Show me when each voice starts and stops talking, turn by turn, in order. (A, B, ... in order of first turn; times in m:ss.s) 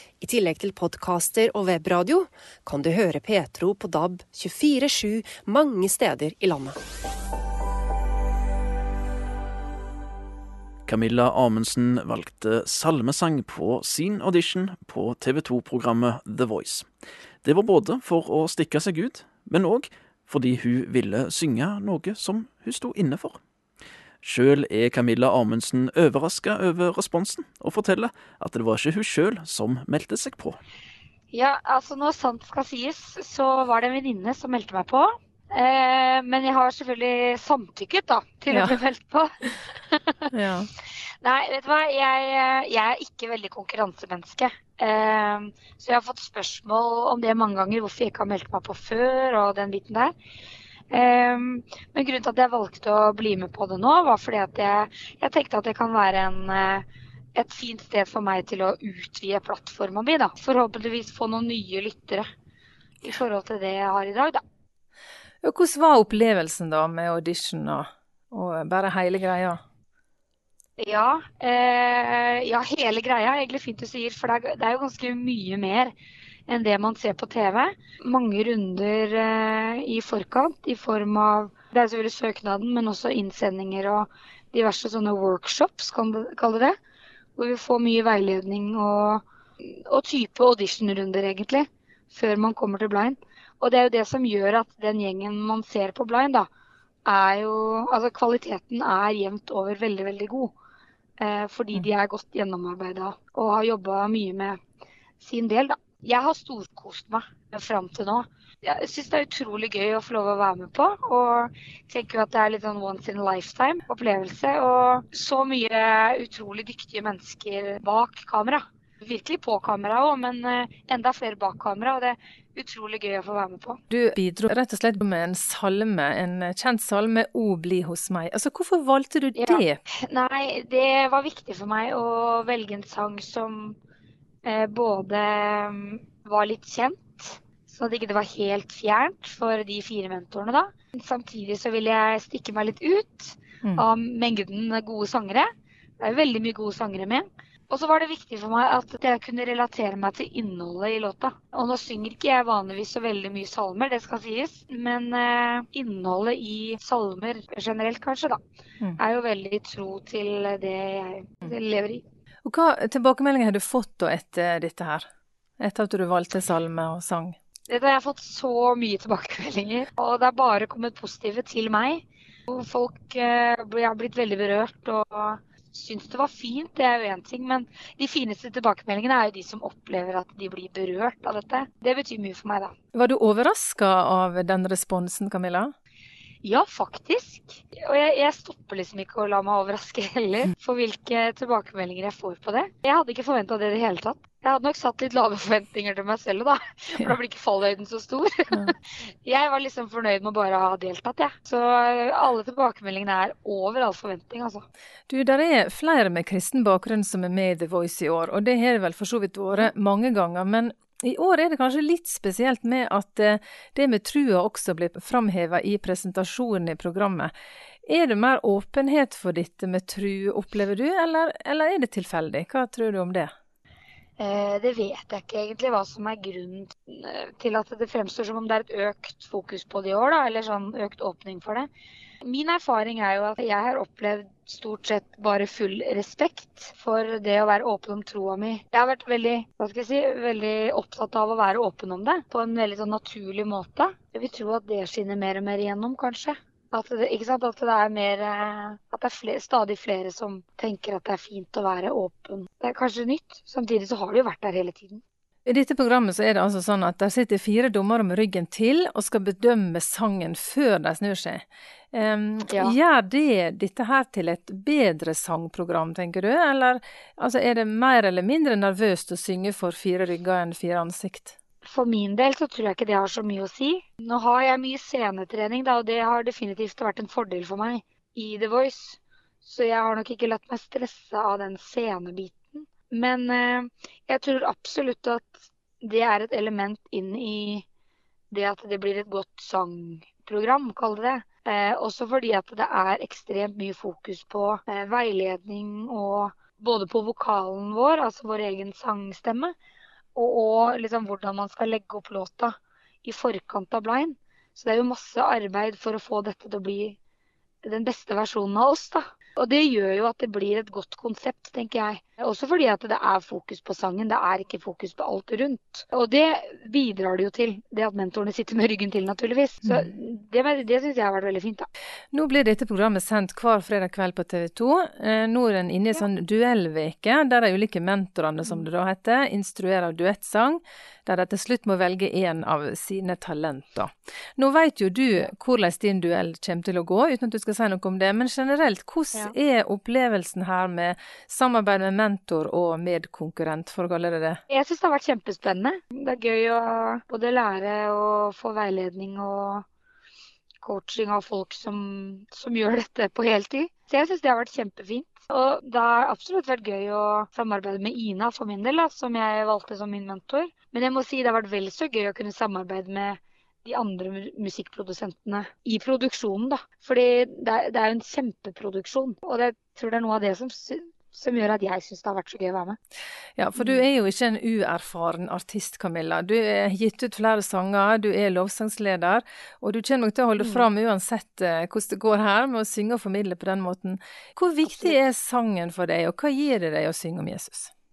0:00.2-0:06.8 A
0:10.9-0:16.9 B
0:17.4-0:23.4 B
0:24.2-0:30.6 B
0:31.3-0:40.3 C
0:38.5-0:38.8 D
0:40.3-0:40.7 D
0:41.2-0:50.1 C
0:50.9-1:02.2 C
1:03.0-1:04.4 C
1:05.4-1:09.6 D
1:10.8-1:15.9 C
1:16.5-1:26.8 C
1:27.4-1:36.5 C
1:37.0-1:40.5 C
1:41.2-1:44.6 C
1:45.2-2:03.8 C
2:03.9-2:09.8 D
2:09.4-2:13.8 C
2:14.4-2:25.5 C
2:26.0-2:38.4 C
2:39.0-2:42.0 C
2:42.4-2:45.1 D
2:45.6-2:47.4 D
2:47.7-3:02.7 C
3:02.9-3:05.7 D
3:06.4-3:18.7 C
3:19.2-3:24.6 C
3:25.1-3:37.3 D
3:37.9-3:43.3 D
3:44.2-3:51.7 C
3:52.2-4:15.0 C
4:15.4-4:31.4 D
4:31.6-4:47.6 C
4:48.3-4:59.6 C
5:00.1-5:07.0 C
5:07.6-5:21.7 C
5:22.1-5:44.4 D
5:44.5-5:49.6 C
5:50.6-6:12.8 C
6:13.4-6:27.7 D
6:24.6-6:24.9 C